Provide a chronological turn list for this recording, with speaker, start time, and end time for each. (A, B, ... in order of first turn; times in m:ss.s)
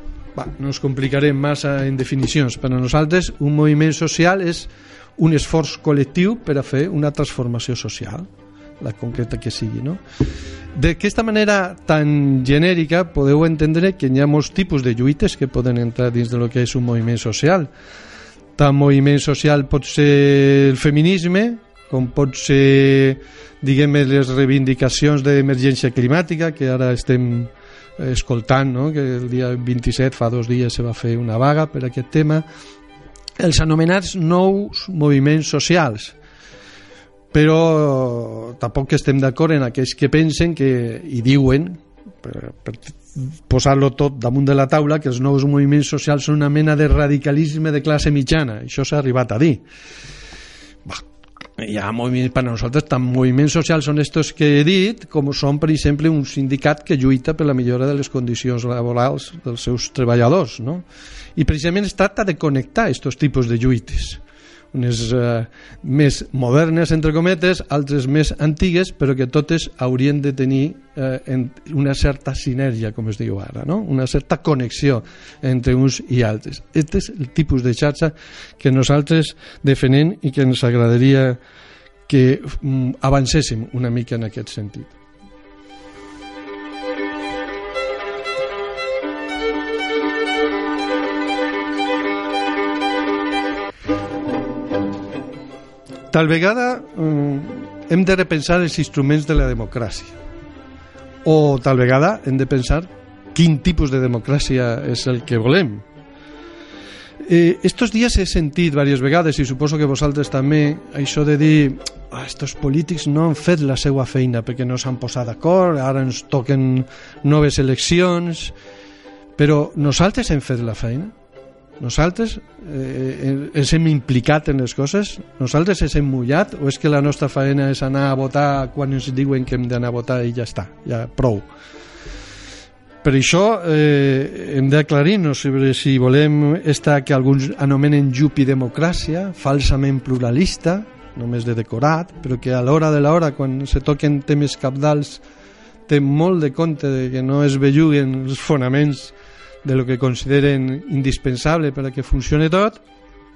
0:00.3-0:08.3 A
0:08.8-0:10.0 A
0:10.7-0:17.7 A
0:18.6-0:32.4 A
0:33.4-0:36.2 A
0:37.3-0:49.6 A
0:51.6-1:00.8 A
1:01.4-1:21.4 A
1:22.1-1:24.9 A
1:36.1-1:40.1 A
1:41.2-1:45.8 A
1:47.2-1:58.5 A
1:59.4-2:01.1 A
2:01.8-2:11.5 A
2:13.0-2:25.2 A
2:25.9-2:32.8 A